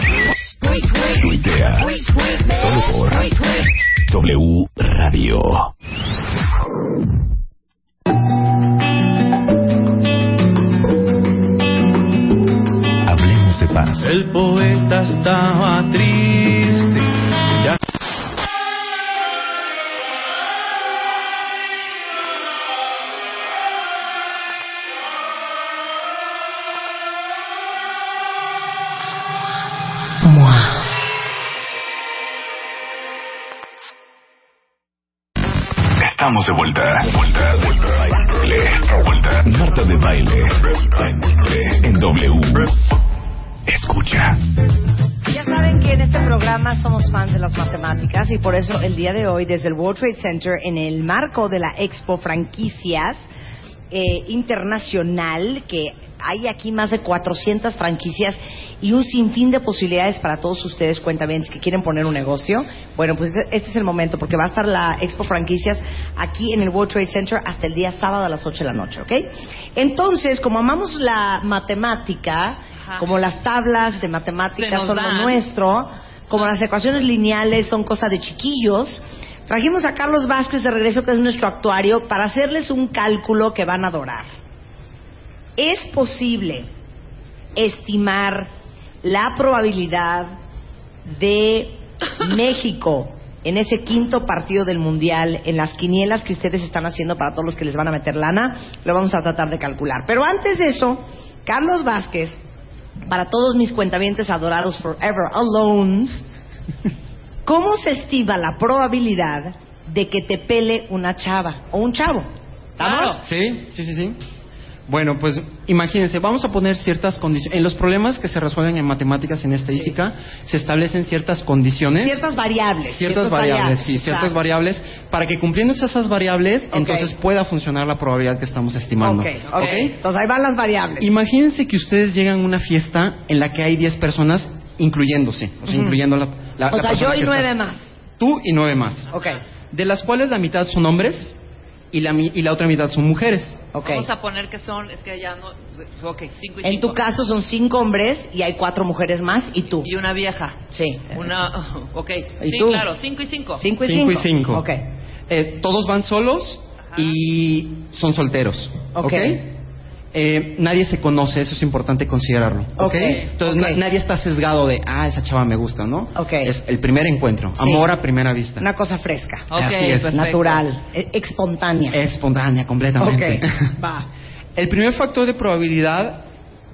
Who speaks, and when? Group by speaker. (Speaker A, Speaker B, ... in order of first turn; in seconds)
Speaker A: 1.0-5.7, 13.0-14.1, 36.0-42.7, 43.7-44.4
Speaker B: 14.0-17.8
Speaker C: 45.3-53.2, 53.9-84.3, 85.6-86.7, 87.5-88.5, 89.0-90.3, 91.1-102.4, 103.1-106.2, 107.4-113.2, 122.0-124.4, 126.7-127.1, 129.0-131.1, 135.7-136.0, 136.7-137.9, 139.1-139.4, 143.7-144.1, 146.6-149.9, 150.7-151.1, 152.4-152.9, 153.6-154.8, 158.9-159.4, 162.8-163.8, 166.1-166.5, 167.6-167.8, 168.6-169.5, 170.0-172.0, 173.0-174.1
Speaker D: 74.5-75.4, 112.8-113.2, 129.6-129.8, 143.8-147.0, 149.8-150.6, 151.1-153.6, 169.5-170.6
Speaker E: 113.2-114.2, 114.9-122.2, 122.8-130.0, 131.0-137.5, 138.2-139.1, 139.7-141.4, 141.9-143.7, 153.8-154.7, 155.3-159.6, 160.1-168.7, 169.5-170.2, 171.9-173.7, 174.6-176.3